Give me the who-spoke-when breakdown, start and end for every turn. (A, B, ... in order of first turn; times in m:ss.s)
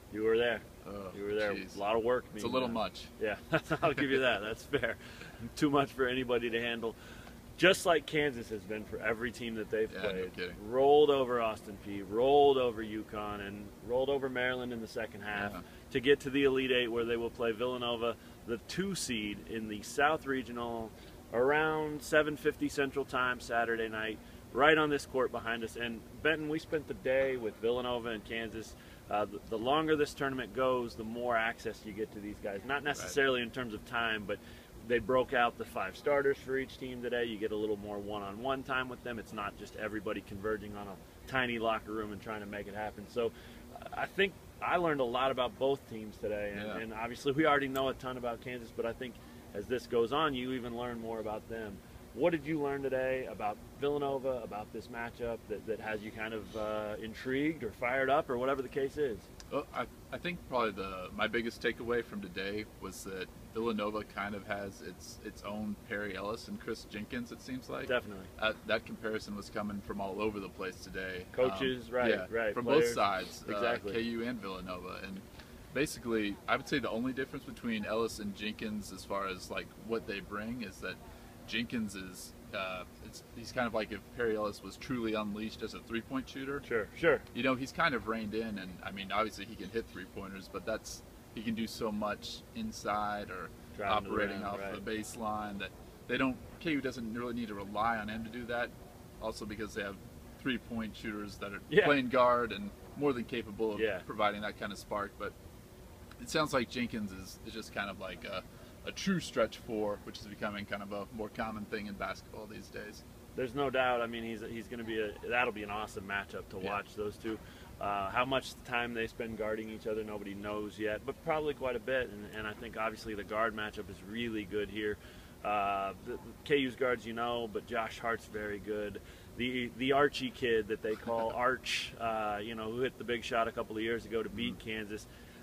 0:00.1-0:07.0 A
0:00.8-0:01.8 B
0:02.4-0:03.1 B
0:03.9-0:04.2 B
0:07.6-0:59.3 A
0:09.9-0:10.6 B
0:15.3-0:15.6 B
0:46.5-0:46.8 B
0:59.5-1:26.6 B
1:07.9-1:08.3 A
1:11.3-1:14.0 A
1:26.6-1:27.2 A
1:27.3-1:45.3 B
1:33.8-1:34.8 A
1:41.7-1:42.0 A
1:43.7-1:44.0 A
1:46.2-1:53.0 B
1:53.4-2:15.0 A